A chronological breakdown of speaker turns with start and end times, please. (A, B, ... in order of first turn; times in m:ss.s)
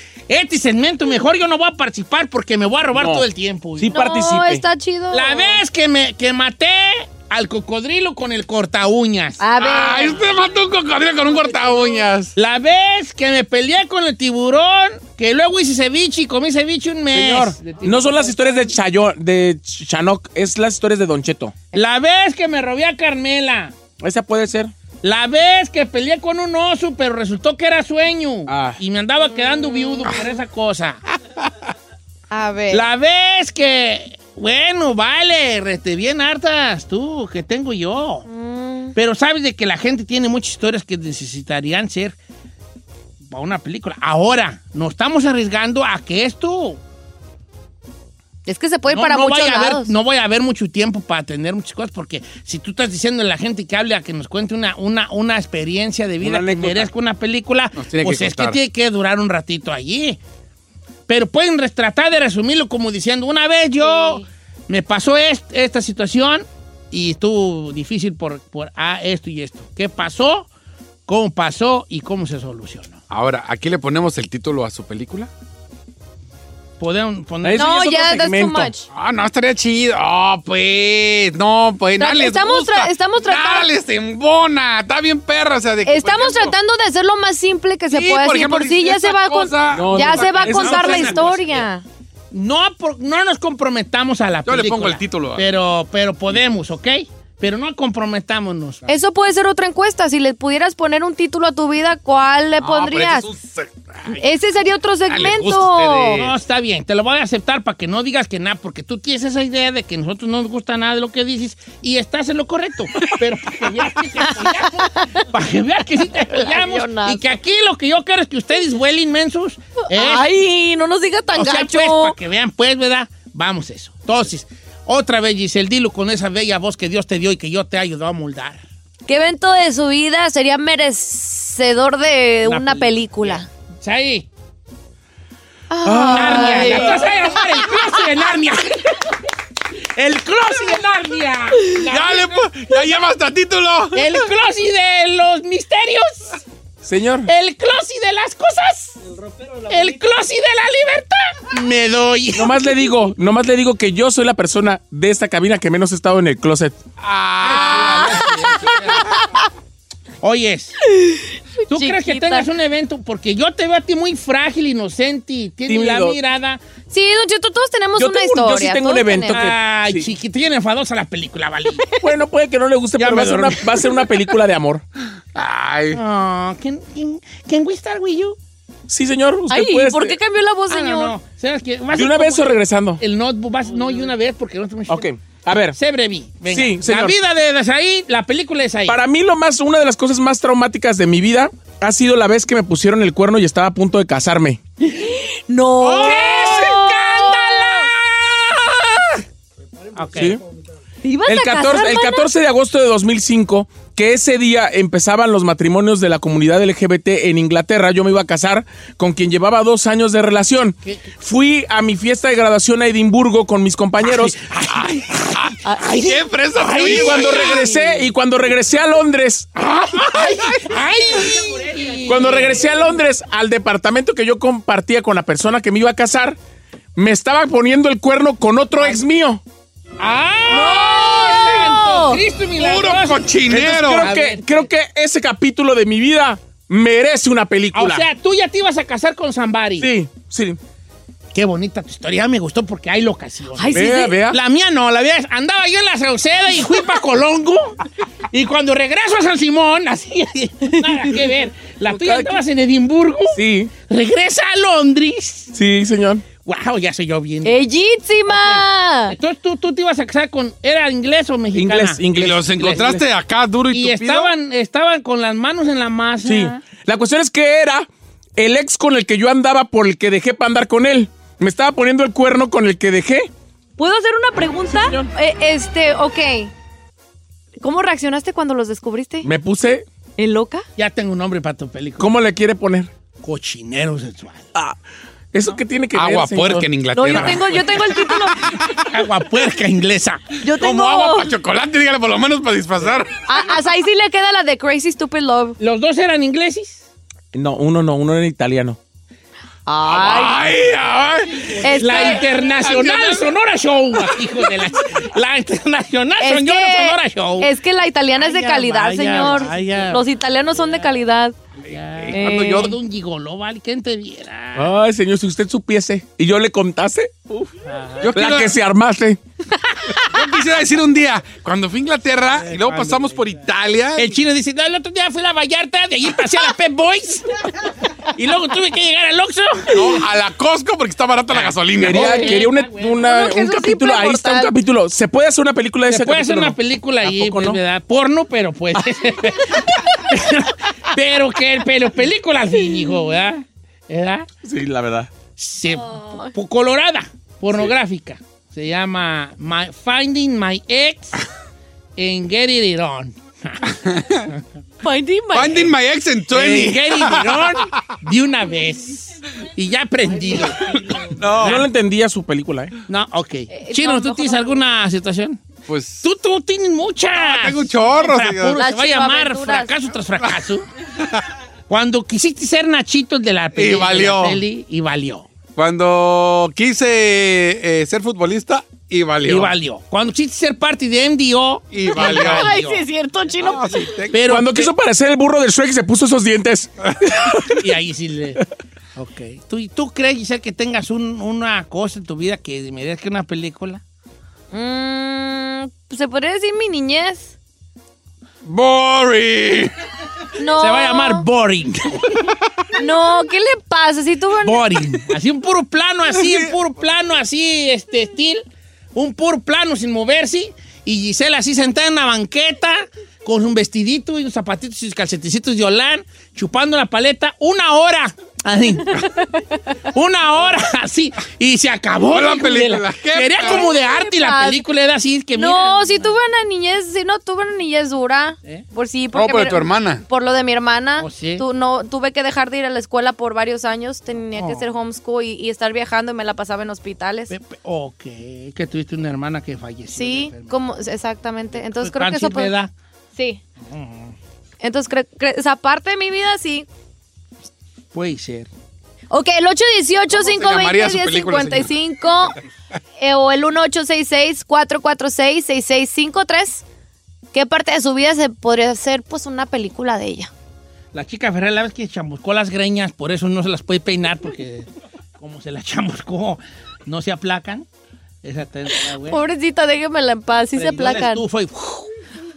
0:00.3-0:03.9 A
0:02.9-0:03.2 B
0:03.8-0:04.6 B
0:03.9-0:05.6 C
0:05.1-0:09.4 A
0:09.4-0:10.3 C
0:09.6-0:12.3 D
0:12.4-0:18.7 A
0:17.1-0:21.6 B
0:21.7-0:23.8 A
0:24.0-0:24.7 B
0:25.0-0:31.0 A
0:28.5-0:28.8 B
0:29.6-0:30.1 C
0:32.3-0:32.8 C
0:32.7-0:38.2 A
0:38.3-0:38.9 C
0:38.9-0:42.2 A
0:43.2-0:46.8 A
0:48.4-0:49.9 C
0:48.9-1:00.2 A
0:56.2-0:56.9 B
0:57.8-0:58.6 D
1:01.1-1:10.5 A
1:03.8-1:04.2 C
1:11.1-1:13.0 A
1:13.1-1:15.3 D
1:16.8-1:17.7 A
1:17.4-1:18.7 B
1:17.6-1:18.8 C
1:18.9-1:26.5 D
1:22.0-1:23.7 C
1:25.8-1:31.8 C
1:27.9-1:31.2 D
1:29.7-1:31.2 B
1:30.5-1:31.7 A
1:32.3-1:38.9 A
1:34.4-1:35.5 D
1:38.9-1:43.3 C
1:42.6-1:44.2 D
1:44.1-1:46.2 C
1:45.1-1:46.3 D
1:46.1-2:00.3 A
1:54.4-1:55.2 C
1:56.2-1:57.3 C
1:59.8-2:02.2 C
2:01.3-2:08.6 A
2:09.0-2:13.4 C
2:12.4-2:14.3 A
2:15.7-2:17.4 C
2:15.8-2:17.1 B
2:16.1-2:19.1 A
2:19.9-2:22.4 A
2:21.8-2:24.2 D
2:23.9-2:26.4 A
2:26.8-2:27.3 B
2:27.2-2:29.0 A
2:29.6-2:32.6 A
2:32.4-2:36.8 B
2:37.0-2:38.3 D
2:37.4-2:39.2 A
2:40.2-2:40.8 A
2:40.9-2:42.5 C
2:41.7-2:46.6 A
2:45.7-2:46.2 B
2:46.9-2:49.4 C
2:48.0-2:50.1 B
2:49.3-2:52.0 A
2:52.0-2:54.8 B
2:53.0-2:53.8 A
2:55.3-2:56.0 D
2:55.9-2:58.4 A
2:58.9-3:00.2 B
2:59.5-3:01.1 C
3:00.7-3:05.1 A
3:01.9-3:03.0 B
3:04.9-3:05.8 B
3:05.7-3:09.0 A
3:06.5-3:07.2 B
3:08.9-3:14.6 B
3:14.9-3:17.9 C
3:15.8-3:19.0 A
3:19.9-3:20.4 A
3:20.2-3:20.4 B
3:21.0-3:22.3 C
3:21.2-3:34.4 B
3:30.8-3:31.1 A
3:34.4-3:38.0 A
3:34.7-3:37.7 D
3:36.8-3:39.5 B
3:39.6-3:42.8 A
3:40.2-3:40.6 D
3:42.0-3:46.4 B
3:47.0-3:49.4 B
3:50.0-3:53.3 A
3:50.5-3:52.2 C
3:52.6-3:54.1 D
3:53.5-3:58.1 B
3:54.0-3:54.7 A
3:57.7-3:59.9 A
3:59.8-4:00.6 B
4:01.3-4:07.8 A
4:03.5-4:04.2 C
4:03.7-4:04.4 B
4:08.3-4:15.5 A
4:11.9-4:12.4 B
4:13.3-4:13.7 B
4:15.5-4:16.2 B
4:16.4-4:17.6 A
4:17.4-4:19.2 C
4:18.3-4:22.8 A
4:21.5-4:23.0 B
4:22.1-4:24.3 D
4:23.7-4:26.6 A
4:26.2-4:33.3 B
4:33.8-4:36.5 C
4:34.7-4:35.1 B
4:37.6-4:39.3 C
4:39.2-4:39.8 B
4:40.2-4:40.6 C
4:40.8-4:42.1 A
4:42.0-4:42.9 B
4:43.2-4:44.5 A
4:45.3-4:46.7 B
4:45.9-4:48.1 D
4:46.9-4:48.6 C
4:48.8-4:50.4 A
4:50.4-4:51.3 C
4:50.5-4:53.1 D
4:53.3-4:55.6 C
4:55.6-4:56.8 A
4:57.3-4:58.8 B
4:59.7-5:00.5 C
4:59.8-5:03.3 D
5:01.4-5:07.5 A
5:01.6-5:02.3 C
5:06.2-5:11.3 C
5:08.2-5:10.0 A
5:09.5-5:09.8 B
5:11.7-5:14.7 A
5:11.9-5:12.8 D
5:12.1-5:12.8 C
5:14.5-5:17.6 B
5:17.7-5:18.1 A
5:18.0-5:18.6 D
5:18.1-5:19.2 B
5:20.0-5:24.1 D
5:22.3-5:23.3 A
5:24.0-5:30.0 A
5:29.7-5:32.3 D
5:31.3-5:33.1 A
5:31.7-5:37.6 B
5:33.0-5:34.5 C
5:35.9-5:44.3 A
5:44.4-5:45.1 B
5:45.3-5:51.2 A
5:45.8-5:46.3 C
5:52.0-5:53.8 A
5:53.8-5:54.2 D
5:54.8-5:55.7 C
5:55.3-5:57.9 D
5:56.3-6:01.7 A
6:00.4-6:01.6 D
6:01.4-6:02.7 B
6:02.9-6:05.4 A
6:03.5-6:04.6 C
6:05.7-6:06.0 D
6:06.0-6:10.7 A
6:07.1-6:08.6 D
6:08.5-6:09.7 C
6:11.7-6:15.3 A
6:13.5-6:14.4 D
6:15.6-6:19.5 D
6:19.2-6:22.8 A
6:21.7-6:22.6 D
6:21.9-6:23.9 C
6:23.4-6:24.2 D
6:24.1-6:24.7 A
6:24.2-6:27.4 B
6:27.5-6:28.4 A
6:29.0-6:33.8 A
6:34.5-6:37.3 C
6:38.4-6:39.7 D
6:40.4-6:41.2 C
6:40.6-6:42.1 A
6:42.8-6:44.7 C
6:44.4-6:59.1 A
6:46.2-6:46.5 D
6:59.9-7:06.1 A
7:02.0-7:03.7 D
7:03.4-7:04.6 C
7:05.4-7:17.3 C
7:09.1-7:10.0 D
7:11.0-7:11.4 A
7:14.3-7:14.7 A
7:17.3-7:20.5 A
7:19.9-7:22.5 C
7:21.5-7:22.7 A
7:23.1-7:23.4 C
7:23.6-7:24.2 A
7:24.6-7:26.7 C
7:27.9-7:28.5 A
7:29.1-7:32.4 C
7:30.1-7:31.7 D
7:33.0-7:36.6 C
7:37.3-7:40.3 C
7:40.9-7:47.6 A
7:48.2-7:49.2 A
7:49.0-7:51.2 C
7:50.5-7:51.9 A